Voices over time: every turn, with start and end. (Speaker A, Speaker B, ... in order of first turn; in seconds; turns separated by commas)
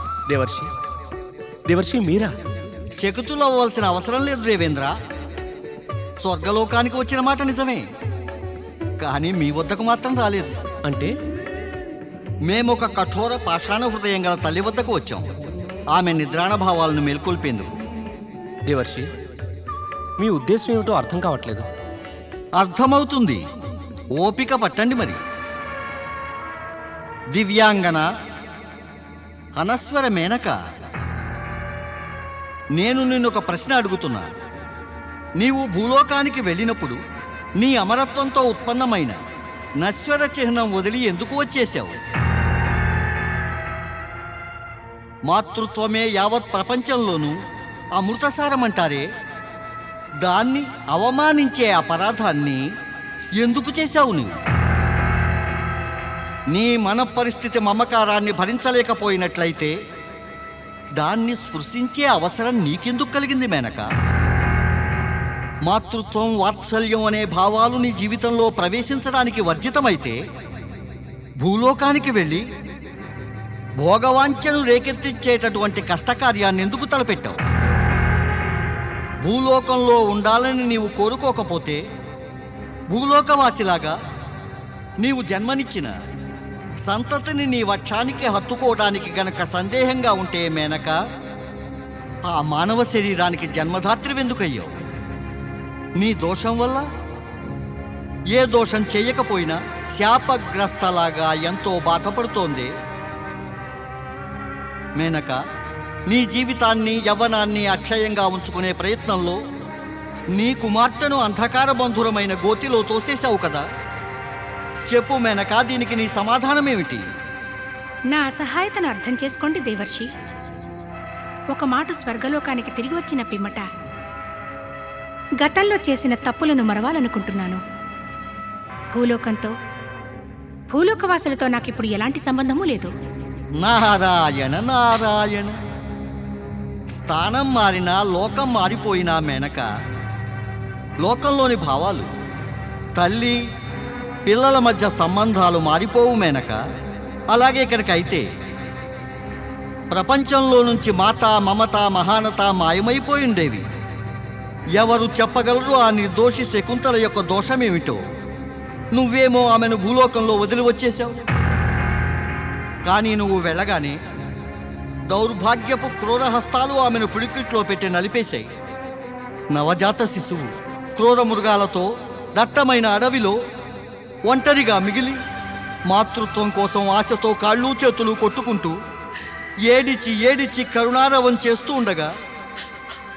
Speaker A: 0.3-0.7, Speaker A: 1.7-2.4, Speaker B: 3.0-4.9, Speaker B: 6.2-7.8, Speaker B: 9.0-10.6, Speaker A: 10.8-11.1, Speaker B: 12.5-15.2, Speaker B: 15.9-17.6, Speaker A: 18.6-19.1, Speaker A: 20.2-21.7, Speaker B: 22.6-23.4, Speaker B: 24.2-25.2, Speaker B: 27.3-28.1, Speaker B: 29.6-30.6, Speaker B: 32.8-34.2, Speaker B: 35.4-37.0, Speaker B: 37.6-39.2, Speaker B: 39.8-41.9, Speaker B: 45.3-47.4, Speaker B: 48.0-49.0, Speaker B: 50.2-52.6, Speaker B: 53.4-54.4, Speaker B: 56.5-59.7, Speaker B: 61.0-63.9, Speaker B: 65.6-70.2, Speaker B: 71.4-72.4, Speaker B: 73.8-77.4, Speaker B: 79.2-81.8, Speaker B: 82.9-83.9, Speaker B: 85.0-85.9, Speaker B: 86.8-91.0, Speaker B: 92.3-94.7, Speaker B: 96.0-96.8, Speaker B: 98.3-102.7, Speaker B: 105.0-105.4, Speaker B: 106.1-109.4, Speaker B: 110.3-113.6, Speaker B: 114.9-117.0, Speaker C: 118.1-120.1, Speaker C: 121.5-123.6, Speaker C: 125.4-127.6, Speaker C: 128.9-129.5, Speaker C: 130.7-132.9, Speaker B: 133.6-135.5, Speaker B: 136.9-139.7, Speaker B: 141.0-142.1, Speaker B: 143.0-143.4, Speaker B: 144.2-146.6, Speaker B: 147.3-148.2, Speaker B: 149.9-153.6, Speaker B: 154.8-158.0, Speaker B: 158.9-161.2, Speaker B: 162.8-164.0, Speaker B: 165.1-168.4, Speaker B: 169.5-173.3, Speaker B: 174.3-175.2, Speaker B: 175.9-178.7, Speaker B: 179.7-182.1